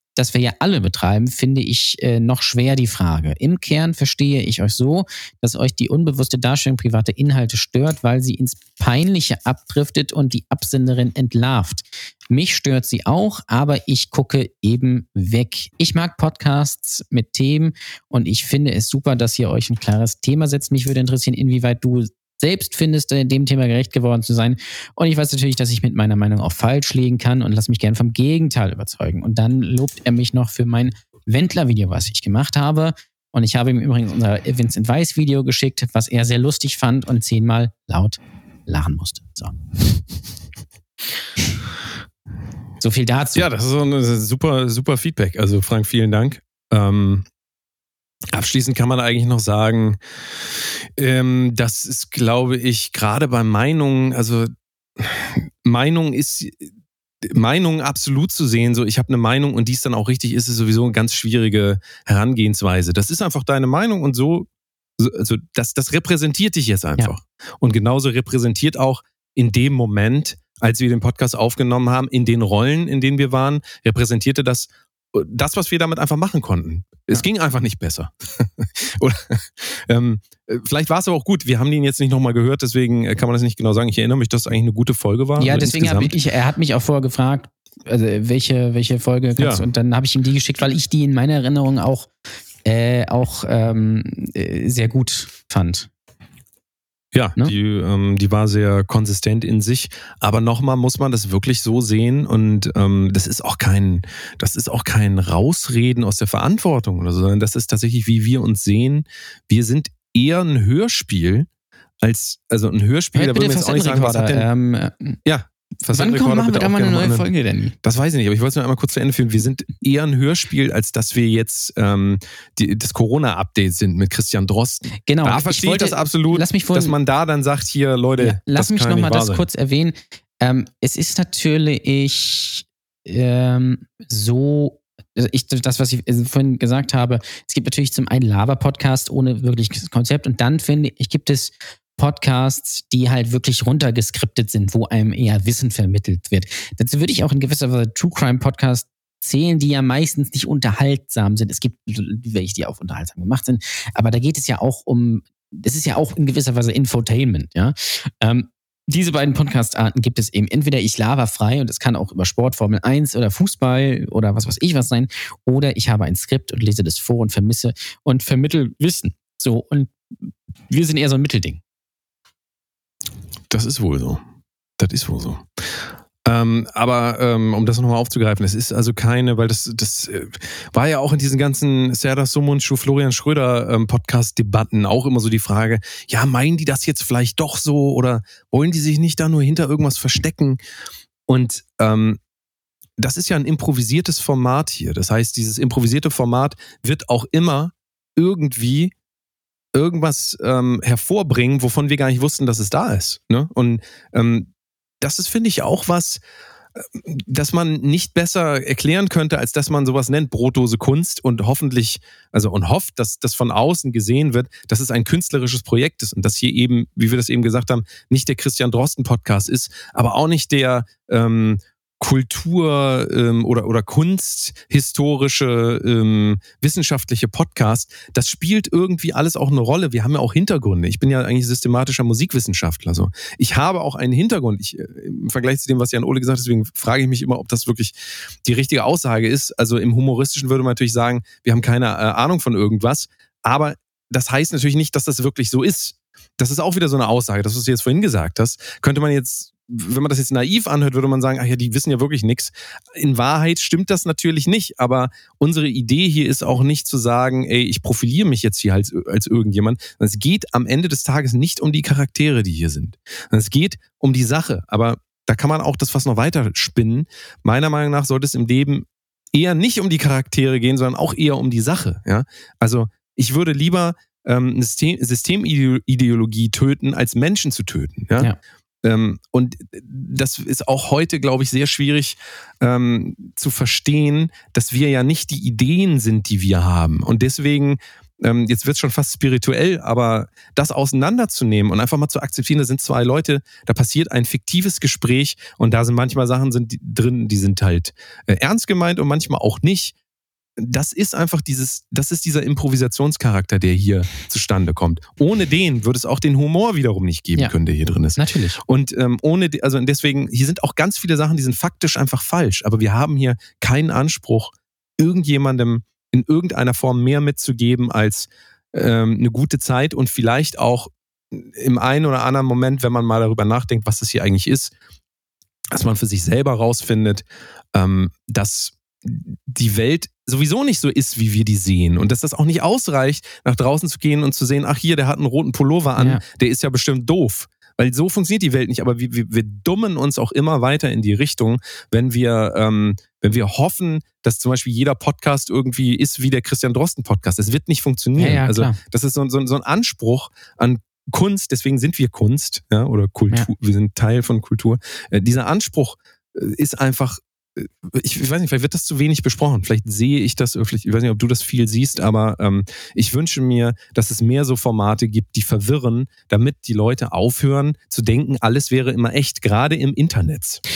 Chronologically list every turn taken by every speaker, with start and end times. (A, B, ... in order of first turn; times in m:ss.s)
0:00.2-0:39.6 A
0:42.8-0:43.5 A
0:43.4-0:47.3 B
0:48.3-0:56.7 B
0:57.2-1:04.5 B
1:05.0-1:26.2 B
1:25.4-1:32.1 A
1:29.4-1:29.6 B
1:32.6-1:35.9 A
1:37.1-1:51.5 B
1:52.0-1:54.5 B
1:53.1-1:55.2 A
1:55.2-1:57.3 B
1:55.9-1:57.8 A
1:57.8-2:09.4 B
2:05.1-2:07.0 A
2:08.2-2:49.9 A
2:50.7-2:51.6 A
2:53.5-2:54.2 B
2:54.8-2:55.4 B
2:56.2-3:10.6 B
3:11.3-3:12.2 B
3:13.0-3:18.9 B
3:19.7-3:26.2 B
3:26.8-4:38.3 B
4:38.8-5:00.0 B
5:00.6-5:24.7 B
5:08.2-5:08.6 A
5:25.7-6:10.6 B
5:36.0-5:36.2 A
5:48.2-5:48.8 A